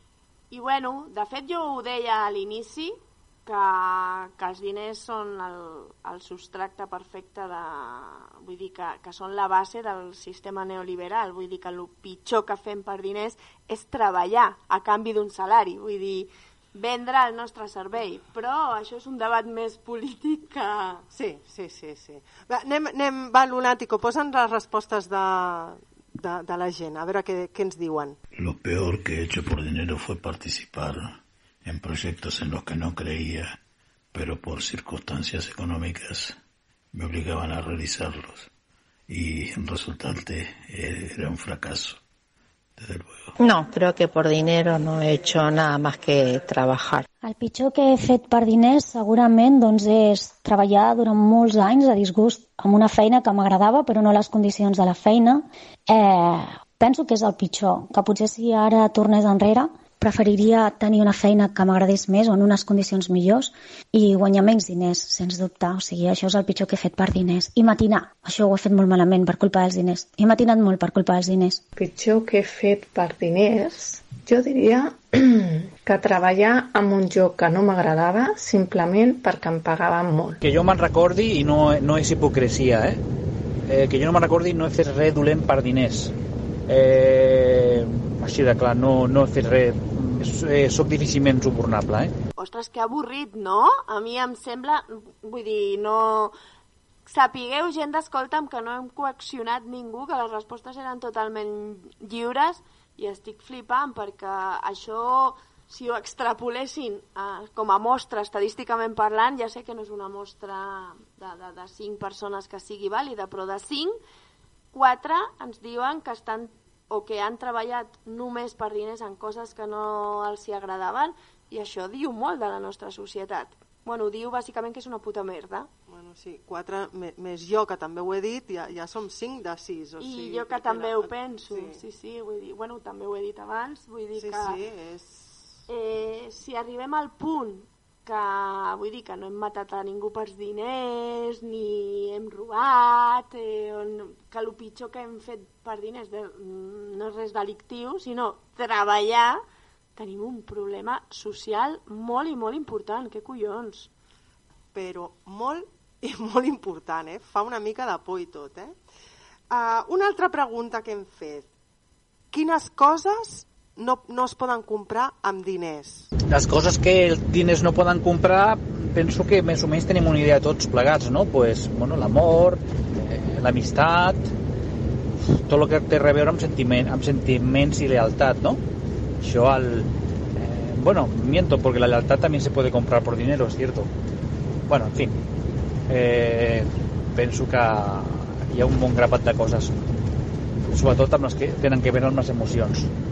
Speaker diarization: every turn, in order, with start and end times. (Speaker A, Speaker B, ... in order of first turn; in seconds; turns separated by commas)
Speaker A: 0.5-21.0, Speaker B: 21.1-28.2, Speaker C: 28.4-33.5, Speaker C: 34.1-36.3, Speaker C: 36.9-38.5, Speaker C: 39.1-42.0, Speaker C: 42.8-43.4, Speaker D: 43.4-47.0, Speaker E: 47.2-71.6, Speaker F: 71.8-80.4, Speaker G: 80.4-83.0, Speaker G: 83.7-86.1, Speaker G: 86.7-92.1, Speaker A: 92.4-96.3, Speaker A: 97.1-114.0, Speaker A: 114.7-125.7, Speaker B: 125.9-131.8, Speaker A: 130.0-134.6, Speaker B: 134.2-135.4, Speaker A: 135.7-149.4, Speaker A: 150.0-153.9, Speaker B: 154.7-158.7, Speaker B: 159.5-161.5, Speaker B: 162.3-166.1, Speaker G: 166.3-174.3, Speaker G: 175.4-178.6, Speaker G: 179.2-183.9, Speaker G: 184.7-185.1, Speaker G: 185.9-189.7, Speaker G: 190.7-192.9